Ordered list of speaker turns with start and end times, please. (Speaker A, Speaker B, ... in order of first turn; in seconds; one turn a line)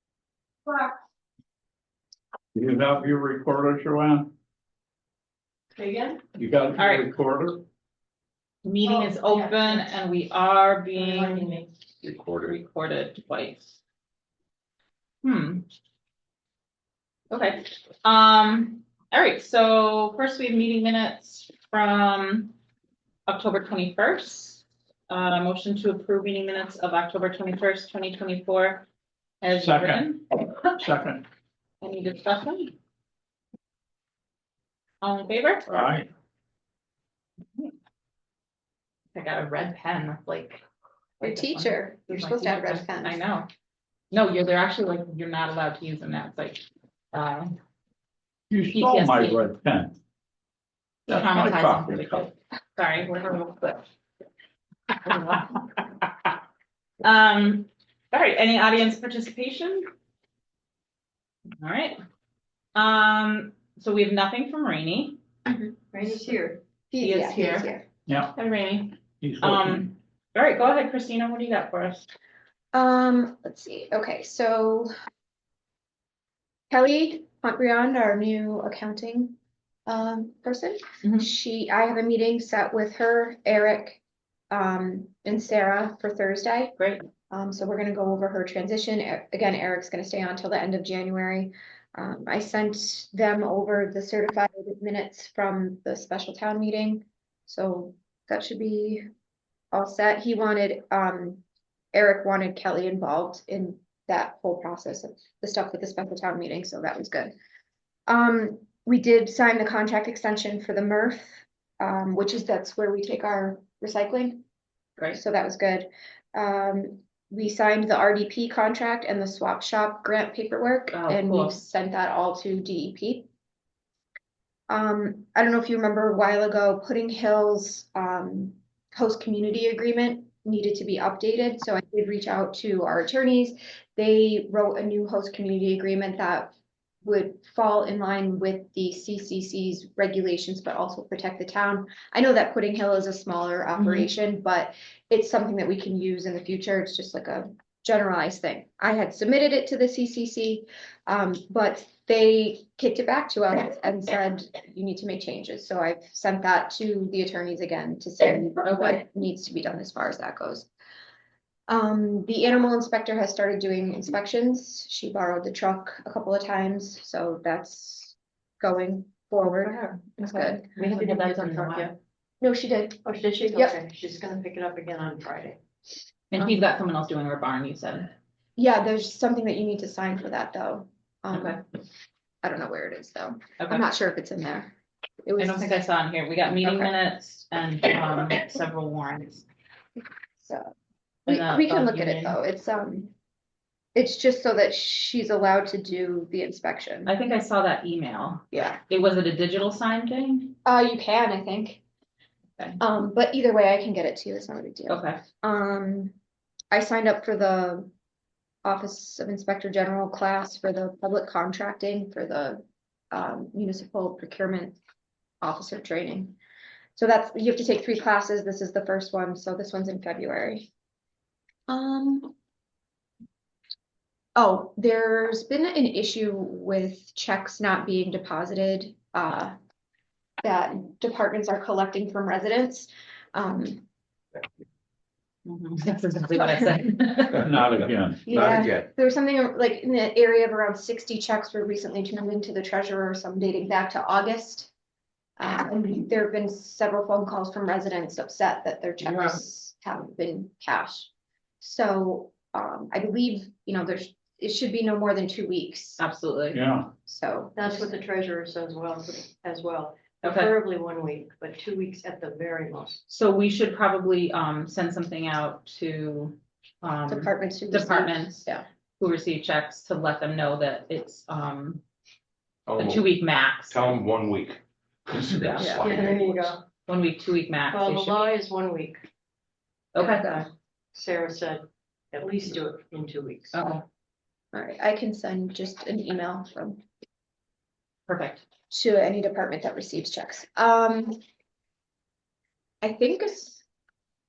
Speaker A: 2.5-4.3
Speaker B: 5.7-6.2
Speaker A: 6.4-7.6
Speaker C: 6.8-7.1
Speaker C: 8.6-11.6
Speaker B: 8.8-9.8
Speaker B: 10.9-11.7
Speaker D: 12.0-12.3
Speaker C: 12.2-13.8
Speaker C: 15.2-15.7
Speaker C: 17.3-22.5
Speaker C: 23.3-28.9
Speaker C: 29.4-30.5
Speaker A: 29.5-31.2
Speaker C: 31.8-32.7
Speaker C: 35.0-36.0
Speaker A: 35.7-36.1
Speaker C: 39.1-40.6
Speaker C: 41.2-43.5
Speaker E: 41.2-43.2
Speaker C: 44.1-47.5
Speaker A: 48.5-50.0
Speaker C: 48.7-49.5
Speaker A: 51.1-52.3
Speaker C: 51.1-53.8
Speaker C: 55.0-55.6
Speaker C: 57.0-59.9
Speaker C: 61.6-62.0
Speaker C: 62.7-65.2
Speaker E: 65.5-65.7
Speaker B: 65.9-66.6
Speaker E: 66.9-67.8
Speaker C: 67.0-67.7
Speaker A: 68.1-68.3
Speaker C: 68.3-72.1
Speaker A: 69.2-69.9
Speaker E: 72.7-74.9
Speaker E: 76.7-86.8
Speaker C: 81.0-81.3
Speaker C: 86.8-87.0
Speaker E: 87.3-99.1
Speaker E: 99.7-107.3
Speaker E: 108.1-114.4
Speaker E: 115.1-123.3
Speaker C: 120.9-121.6
Speaker E: 124.7-160.7
Speaker C: 143.8-144.1
Speaker C: 158.6-159.0
Speaker E: 161.7-170.6
Speaker C: 170.2-171.9
Speaker B: 170.8-171.9
Speaker E: 172.4-173.8
Speaker B: 173.0-175.6
Speaker C: 176.3-178.1
Speaker E: 178.6-181.6
Speaker C: 181.3-181.6
Speaker E: 182.4-185.8
Speaker C: 183.6-183.8
Speaker C: 185.4-189.4
Speaker E: 186.6-186.9
Speaker E: 190.4-190.7
Speaker C: 191.3-192.4
Speaker E: 191.3-193.1
Speaker E: 193.9-197.1
Speaker C: 197.1-200.6
Speaker E: 198.5-198.8
Speaker E: 200.6-201.8
Speaker E: 202.8-206.1
Speaker C: 204.9-205.2
Speaker E: 206.7-207.9
Speaker E: 208.6-214.8
Speaker E: 215.4-216.3
Speaker E: 216.9-220.7
Speaker E: 221.7-222.3
Speaker E: 224.3-229.5
Speaker E: 230.4-233.8
Speaker C: 235.4-237.5
Speaker A: 237.4-238.3
Speaker D: 237.5-238.9
Speaker E: 238.2-244.7
Speaker E: 245.4-251.1
Speaker E: 251.6-256.0
Speaker C: 256.0-256.6
Speaker A: 256.5-256.9
Speaker E: 257.1-257.9
Speaker B: 257.5-263.0
Speaker C: 260.2-260.5
Speaker C: 263.1-268.4
Speaker E: 267.1-268.7
Speaker C: 269.0-271.8
Speaker D: 272.7-276.6
Speaker C: 272.8-273.9
Speaker C: 275.3-275.9
Speaker B: 275.8-276.6
Speaker C: 276.9-278.3
Speaker B: 277.7-279.0
Speaker C: 279.9-280.4
Speaker B: 280.0-283.5
Speaker C: 283.5-283.8
Speaker E: 284.5-286.8
Speaker C: 288.1-288.4
Speaker E: 288.7-291.2
Speaker E: 292.8-293.6